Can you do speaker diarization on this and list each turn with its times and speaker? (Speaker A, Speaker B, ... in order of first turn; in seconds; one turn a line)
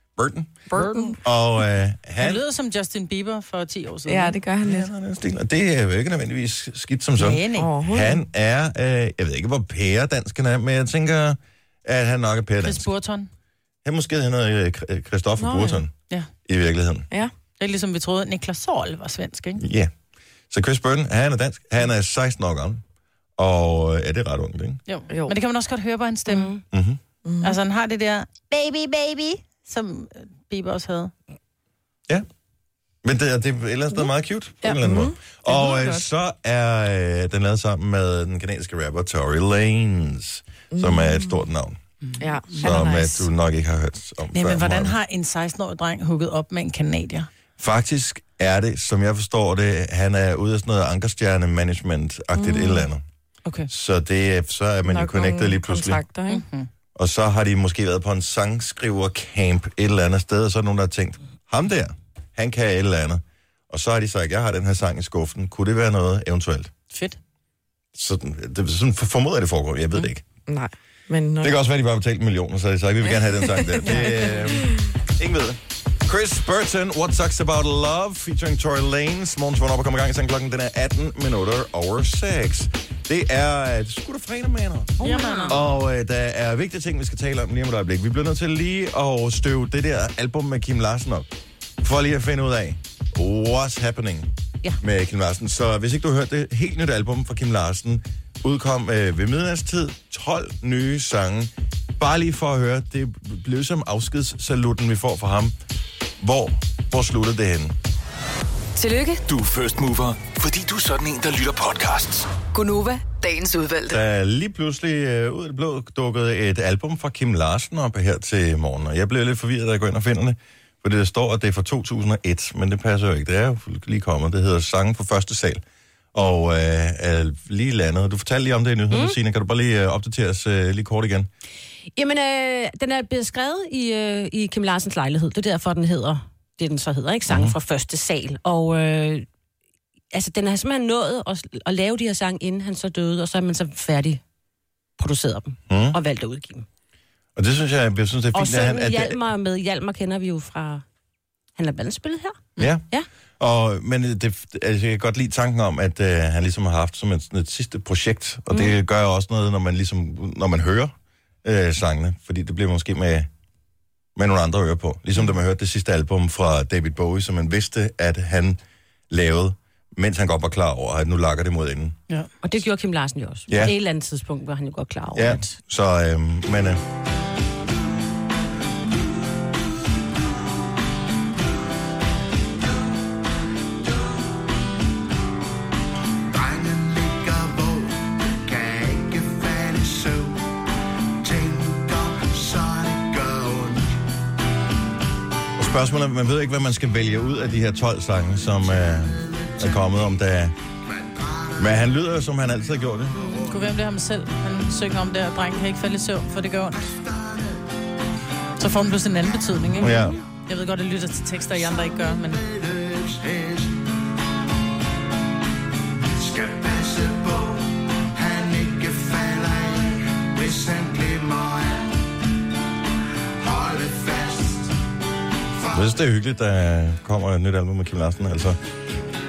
Speaker A: 0.2-2.4
Speaker B: 0.7-1.2
Speaker C: 2.2-4.4
Speaker B: 4.1-4.9
Speaker A: 4.6-12.9
Speaker C: 7.2-7.7
Speaker B: 7.6-8.2
Speaker C: 12.6-13.3
Speaker A: 13.8-15.9
Speaker B: 15.4-15.8
Speaker A: 16.5-17.1
Speaker C: 17.6-19.6
Speaker A: 19.6-19.9
Speaker A: 20.5-22.8
Speaker A: 23.4-24.8
Speaker C: 24.9-26.5
Speaker D: 26.3-26.6
Speaker A: 26.7-27.0
Speaker B: 27.2-27.6
Speaker C: 27.4-31.1
Speaker A: 33.0-41.8
Speaker B: 34.6-36.0
Speaker B: 40.7-41.3
Speaker C: 42.1-42.6
Speaker B: 42.2-43.3
Speaker A: 42.6-45.0
Speaker C: 44.3-47.3
Speaker A: 47.6-53.0
Speaker B: 52.4-52.9
Speaker A: 53.7-56.0
Speaker B: 54.9-56.4
Speaker C: 56.3-56.7
Speaker A: 57.0-66.7
Speaker C: 66.9-67.2
Speaker A: 67.9-70.2
Speaker B: 70.5-71.5
Speaker A: 71.4-85.0
Speaker B: 73.7-74.8
Speaker D: 85.0-85.6
Speaker C: 85.0-85.6
Speaker A: 85.5-91.3
Speaker A: 91.8-94.3
Speaker A: 94.8-105.5
Speaker A: 106.2-107.8
Speaker E: 108.8-109.2
Speaker F: 109.3-112.3
Speaker E: 112.5-114.0
Speaker A: 113.9-125.6
Speaker A: 126.1-131.3
Speaker D: 128.9-129.2
Speaker D: 131.9-139.3
Speaker A: 137.3-137.6
Speaker D: 140.1-144.2
Speaker D: 145.0-146.7
Speaker A: 145.7-146.0
Speaker A: 147.4-149.2
Speaker D: 148.3-150.8
Speaker D: 151.6-153.1
Speaker A: 152.6-152.8
Speaker A: 153.4-160.9
Speaker A: 161.4-163.3
Speaker A: 164.2-168.6
Speaker A: 169.1-172.0
Speaker D: 172.4-175.5
Speaker A: 173.5-173.8
Speaker A: 175.2-176.8
Speaker G: 183.8-184.3
Speaker G: 186.3-194.0
Speaker A: 195.6-200.5
Speaker G: 198.6-199.9
Speaker G: 200.9-201.9
Speaker A: 201.6-203.2
Speaker G: 203.1-203.6
Speaker C: 203.3-206.8
Speaker G: 206.8-207.7
Speaker C: 208.6-212.4
Speaker A: 209.8-210.2
Speaker G: 211.7-213.9
Speaker G: 216.1-222.1
Speaker G: 223.4-224.8
Speaker G: 225.6-225.9
Speaker A: 225.7-228.6